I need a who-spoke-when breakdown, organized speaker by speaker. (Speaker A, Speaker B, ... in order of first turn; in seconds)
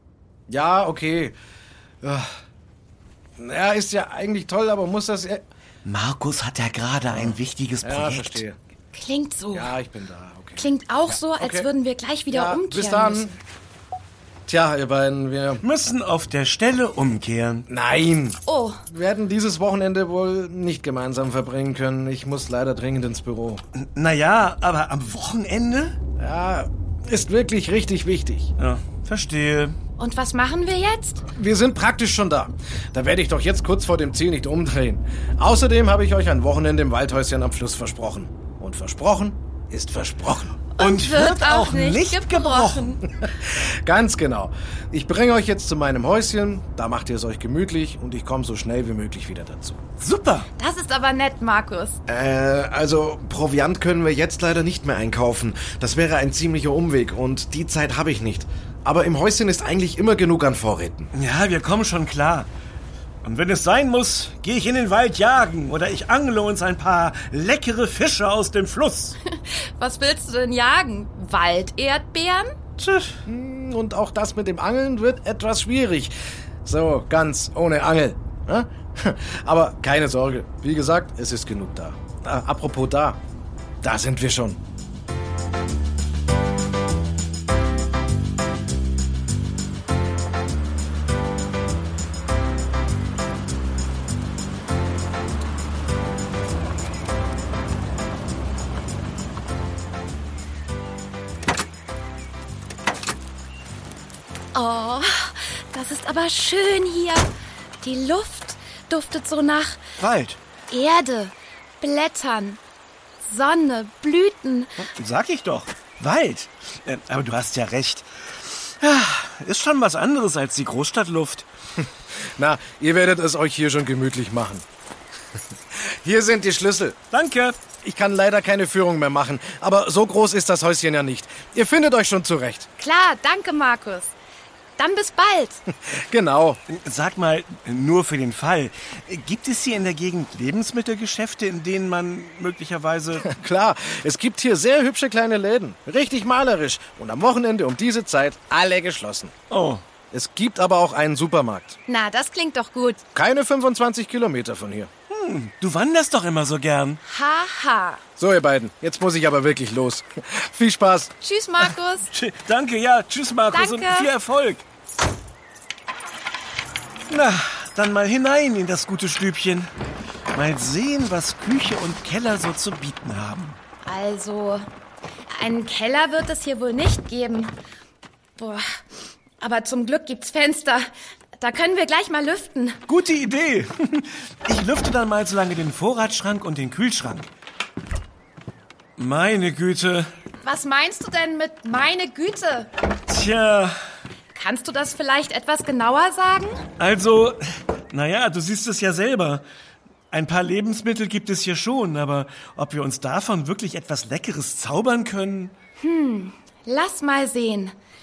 Speaker A: 0.5-1.4, 2.0-2.3, 3.4-5.4, 7.1-8.6, 9.5-10.7, 11.4-11.7, 12.3-13.3, 14.5-15.6, 17.7-23.6, 26.2-28.5, 31.3-40.6, 43.2-49.8, 52.1-61.1, 73.3-76.1, 76.7-83.2, 83.8-84.6, 122.4-124.7, 125.8-127.0, 127.8-132.7, 135.7-136.6, 143.2-149.3, 150.1-151.8, 153.2-154.9, 158.2-161.1
Speaker B: 5.8-8.4, 15.6-17.7, 23.8-26.0, 28.6-29.8, 40.8-43.0, 50.0-50.5, 61.1-62.5, 63.2-69.2, 72.8-73.2, 110.0-110.4, 114.9-121.5, 127.1-127.6, 136.7-143.3, 149.5-149.8, 155.1-157.0, 162.1-164.6, 167.1-169.7, 170.3-173.6, 182.9-187.3, 189.0-190.1, 193.1-193.8, 196.8-199.4, 200.1-205.5
Speaker C: 8.9-9.7, 10.6-13.4, 18.5-18.8, 30.0-31.2, 40.8-43.0, 50.6-52.0, 69.3-72.5, 104.5-107.3, 107.8-109.8, 110.7-112.6, 113.2-114.8, 132.8-134.2, 134.8-135.6, 151.9-153.0, 157.1-158.0, 161.2-162.1, 163.5-164.1, 173.9-174.6, 175.4-177.6, 178.4-178.7, 179.4-180.9, 181.4-182.8, 190.4-192.7, 194.3-196.6, 205.8-207.7